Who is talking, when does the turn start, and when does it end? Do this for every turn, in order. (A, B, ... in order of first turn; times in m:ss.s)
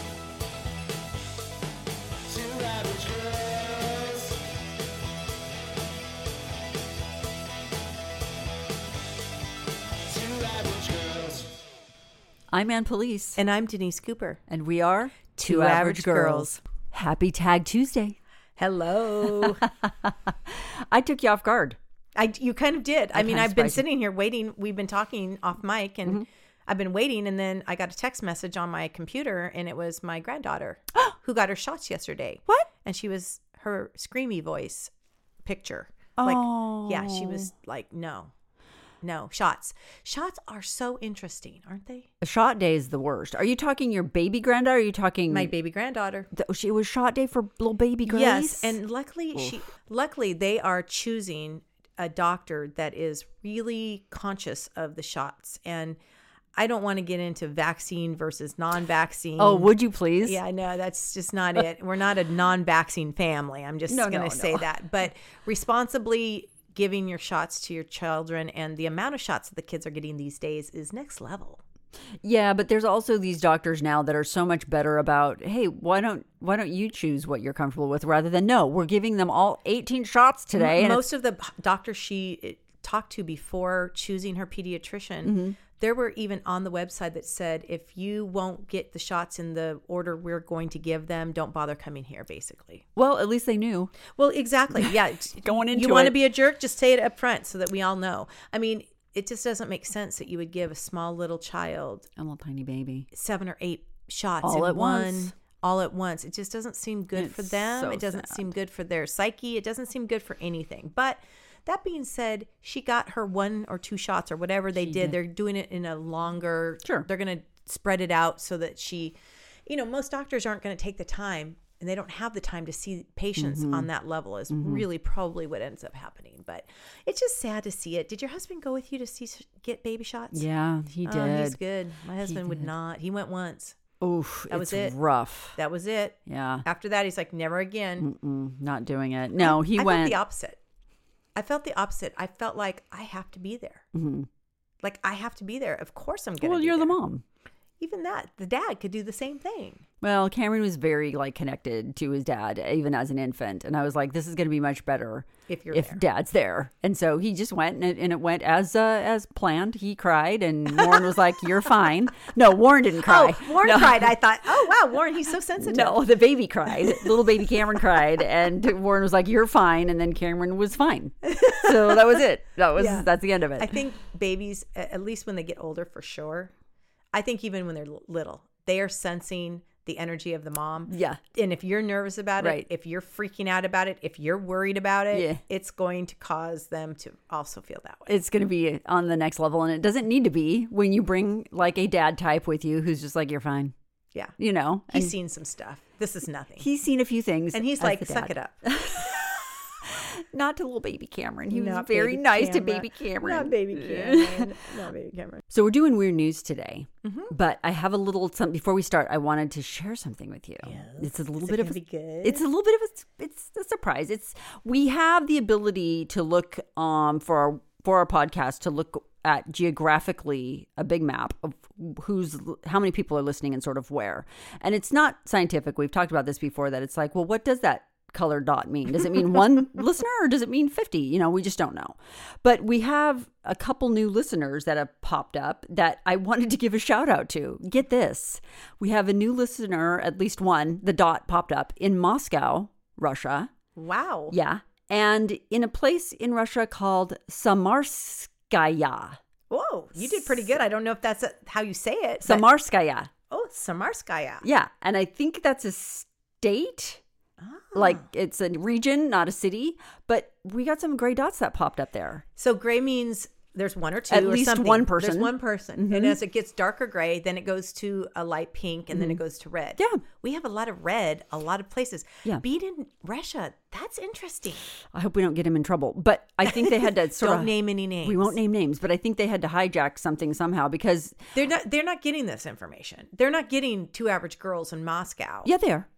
0:02.3-0:04.4 A
0:10.1-0:11.5 A
0:12.5-0:13.4 B
0:13.4-0:14.4 C
0:14.5-0:18.2 B
0:15.4-0:16.6 C
0:18.6-0:19.6 C
0:19.2-0:21.8 B
0:22.2-0:34.9 C
0:23.1-0:23.8 B
0:35.4-0:38.3 C
0:36.2-0:37.5 B
0:39.0-0:42.1 C
0:42.2-0:45.5 B
0:45.3-0:46.3 C
0:46.3-0:48.8 B
0:48.1-0:56.0 C
0:56.6-1:11.6 C
0:59.4-1:00.4 B
1:03.9-1:04.7 B
1:12.2-1:21.1 B
1:20.6-1:32.8 C
1:25.2-1:25.6 B
1:33.0-1:33.9 B
1:34.2-1:42.1 C
1:34.8-1:36.2 B
1:42.2-1:43.1 B
1:43.1-2:10.4 C
1:44.4-1:45.3 B
1:47.2-1:48.4 B
1:54.8-1:55.2 B
2:03.4-2:03.9 B
2:04.5-2:04.9 B
2:10.3-2:11.6 B
2:11.0-2:13.8 C
2:12.2-2:12.7 B
2:14.0-2:15.6 B
2:14.5-2:15.0 C
2:15.6-2:18.1 C
2:16.3-2:16.6 B
2:18.0-2:20.2 B
2:19.4-2:20.6 C
2:21.4-2:23.9 C
2:23.9-2:24.3 B
2:24.8-2:27.0 C
2:26.4-2:27.2 B
2:27.8-2:29.8 C
2:30.0-2:44.1 B
2:35.5-2:36.0 C
2:43.0-2:46.0 C
2:45.6-2:53.8 B
2:46.7-2:47.3 C
2:51.3-2:52.2 C
2:52.8-2:56.5 C
2:57.1-3:08.1 C
3:00.9-3:01.2 B
3:02.4-3:02.7 B
3:05.1-3:05.4 B
3:08.1-3:13.7 B
3:14.4-3:15.2 B
3:14.9-3:16.7 C
3:16.6-3:24.6 B
3:17.5-3:18.7 C
3:21.5-3:25.4 C
3:25.5-4:03.5 B
3:27.0-3:27.3 C
3:30.6-3:32.4 C
4:03.8-4:04.4 C
4:04.3-4:09.2 B
4:09.5-4:12.5 C
4:10.0-4:10.5 B
4:12.2-4:13.1 B
4:13.3-4:14.4 C
4:14.4-4:17.0 B
4:17.4-4:18.1 C
4:17.8-4:22.2 B
4:22.4-4:34.7 C
4:24.1-4:26.2 B
4:28.9-4:29.2 B
4:34.9-4:41.2 B
4:36.4-4:38.4 C
4:41.4-4:45.5 C
4:45.4-4:45.9 B